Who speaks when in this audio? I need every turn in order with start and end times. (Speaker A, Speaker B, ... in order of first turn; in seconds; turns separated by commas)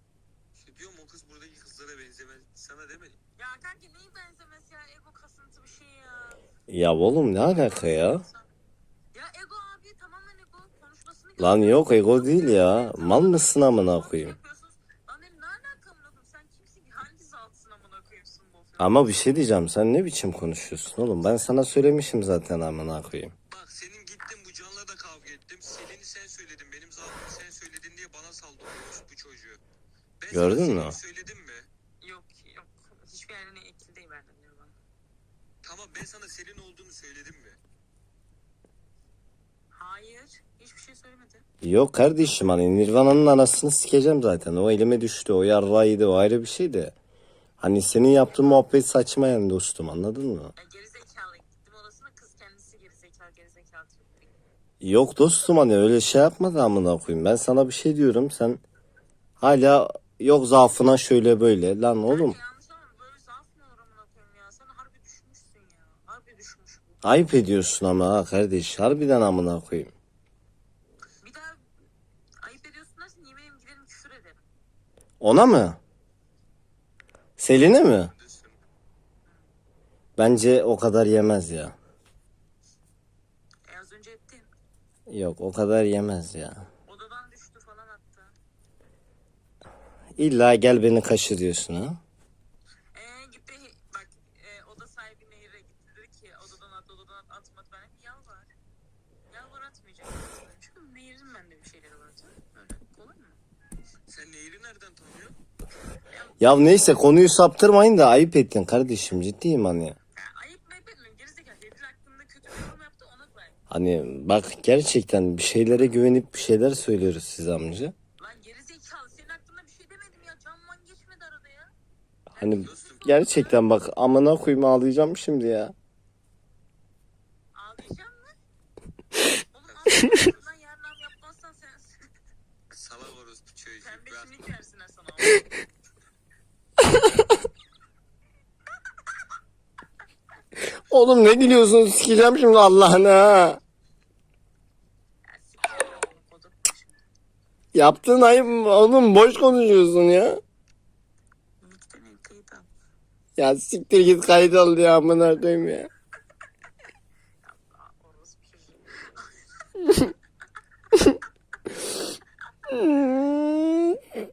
Speaker A: 0.6-3.2, Speaker B: 3.4-6.4, Speaker C: 6.7-8.2, Speaker B: 7.5-8.5, Speaker B: 9.1-19.1, Speaker C: 11.4-14.4, Speaker C: 18.8-23.3, Speaker A: 23.5-29.6, Speaker A: 30.2-31.7, Speaker C: 30.3-30.9, Speaker B: 32.0-34.8, Speaker A: 35.6-37.6, Speaker B: 39.7-41.4, Speaker C: 41.6-46.9, Speaker C: 47.6-50.5, Speaker B: 50.5-54.3, Speaker C: 54.8-58.6, Speaker C: 59.4-62.4, Speaker B: 62.0-67.0, Speaker C: 67.0-69.9, Speaker B: 71.2-71.6, Speaker B: 72.4-74.5, Speaker C: 75.2-75.8, Speaker C: 77.4-78.1, Speaker A: 78.1-78.6, Speaker C: 80.2-81.7, Speaker B: 83.7-84.5, Speaker C: 85.1-86.6, Speaker B: 86.9-88.3, Speaker C: 90.2-92.0, Speaker B: 92.9-98.5, Speaker B: 99.3-103.4, Speaker A: 104.1-105.3, Speaker B: 106.1-106.9, Speaker C: 106.4-110.0, Speaker B: 110.2-113.6, Speaker C: 113.7-117.9, Speaker B: 118.2-121.7, Speaker B: 122.3-123.6, Speaker C: 122.3-125.7, Speaker A: 122.6-123.0, Speaker B: 127.5-128.3, Speaker B: 129.5-131.9, Speaker A: 129.7-130.0, Speaker A: 132.7-134.3, Speaker B: 133.8-135.5, Speaker C: 140.9-143.6, Speaker B: 145.3-147.0, Speaker C: 147.7-150.4, Speaker B: 151.6-152.7, Speaker C: 153.4-155.9, Speaker B: 157.4-160.0, Speaker C: 162.7-163.8